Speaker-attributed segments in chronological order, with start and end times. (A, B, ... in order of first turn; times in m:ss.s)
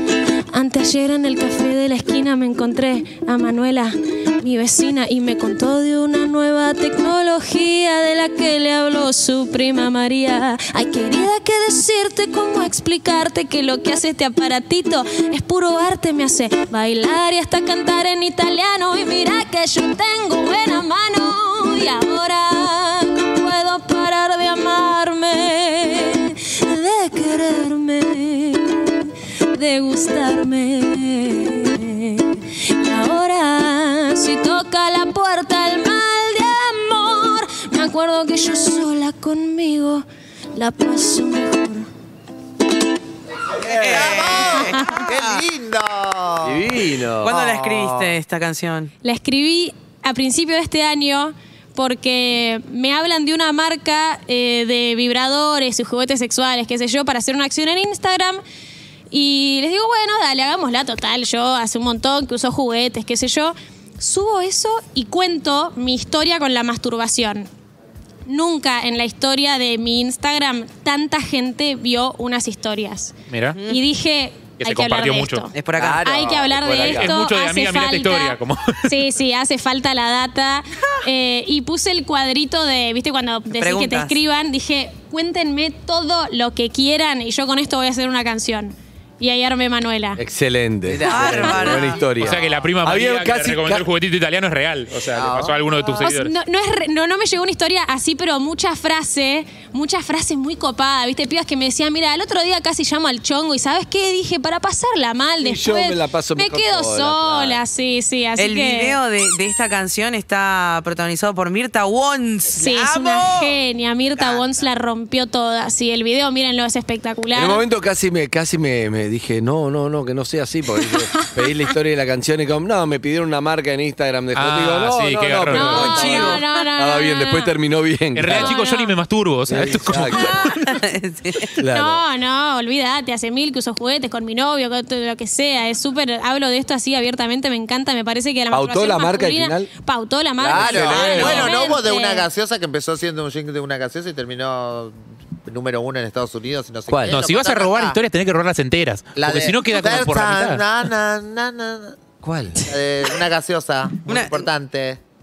0:00.5-0:40.0 A
0:40.6-0:41.9 A
0:43.6-0:48.2 B
0:43.6-0:45.4 C
0:44.5-0:45.0 A
0:46.4-0:47.4 D
0:47.2-0:48.9 C
0:49.0-0:58.4 A
0:59.1-1:07.5 A
1:08.3-1:30.2 A
1:13.3-1:13.6 E
1:14.6-1:15.5 E
1:15.5-1:16.1 C
1:15.8-1:16.8 B
1:16.4-1:17.2 D
1:16.6-1:19.0 E
1:23.5-1:24.2 C
1:30.2-1:33.8 D
1:30.9-1:32.6 B
1:31.0-1:32.0 C
1:31.4-1:31.8 A
1:32.2-1:36.3 E
1:35.1-1:36.0 B
1:36.0-1:49.0 A
1:45.4-1:47.6 D
1:48.4-1:53.6 C
1:52.5-1:57.6 A
1:57.3-2:08.6 D
2:00.8-2:01.2 A
2:04.3-2:06.1 E
2:05.5-2:07.6 A
2:05.6-2:06.5 C
2:08.2-2:10.5 E
2:08.3-2:09.0 A
2:09.5-2:10.5 D
2:10.1-2:11.5 C
2:11.6-2:12.0 D
2:11.7-2:22.3 A
2:18.5-2:19.7 D
2:20.4-2:21.6 D
2:20.5-2:28.0 B
2:26.9-2:27.2 D
2:27.1-2:30.9 E
2:29.2-2:32.0 B
2:32.2-2:32.8 D
2:32.6-2:35.0 B
2:34.1-2:34.5 C